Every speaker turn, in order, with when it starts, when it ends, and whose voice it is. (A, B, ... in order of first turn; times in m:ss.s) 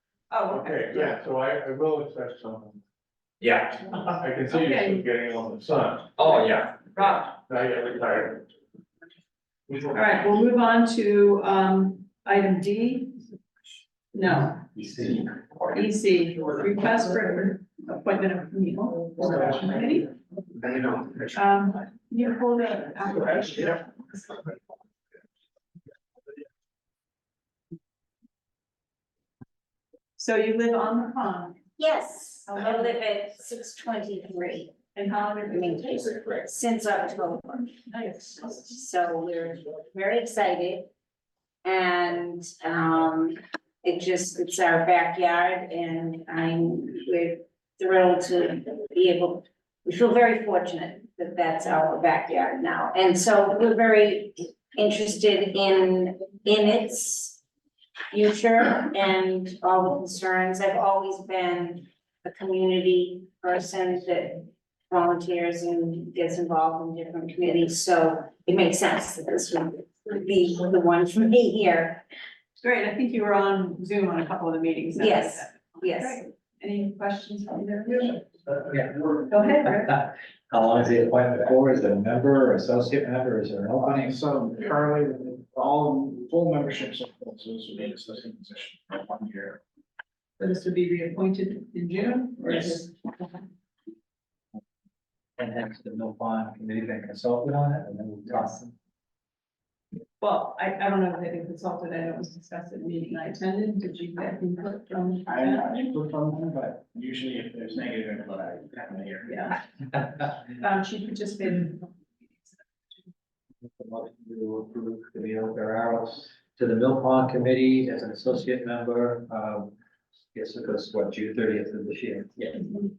0:00.3-0:01.0 A
0:00.5-0:02.8 B
0:03.4-0:08.4 B
0:04.5-0:05.1 A
0:06.9-0:07.4 A
0:09.9-0:13.2 A
0:14.1-0:20.1 A
0:21.1-0:23.9 A
0:30.2-0:31.6 A
0:31.8-0:34.7 C
0:32.5-0:33.0 A
0:34.9-0:36.4 A
0:35.5-0:37.8 C
0:37.9-0:38.5 A
0:38.4-0:40.9 C
0:41.6-0:57.4 C
0:58.1-1:12.0 C
1:12.6-1:18.3 A
1:15.0-1:16.2 C
1:19.3-1:19.9 A
1:19.8-1:24.2 D
1:24.0-1:29.6 E
1:30.4-1:33.4 A
1:35.4-1:38.7 D
1:40.2-1:45.9 A
1:45.3-1:49.5 E
1:49.2-1:49.6 A
1:50.2-1:52.6 A
1:53.6-1:59.7 D
2:00.3-2:02.7 D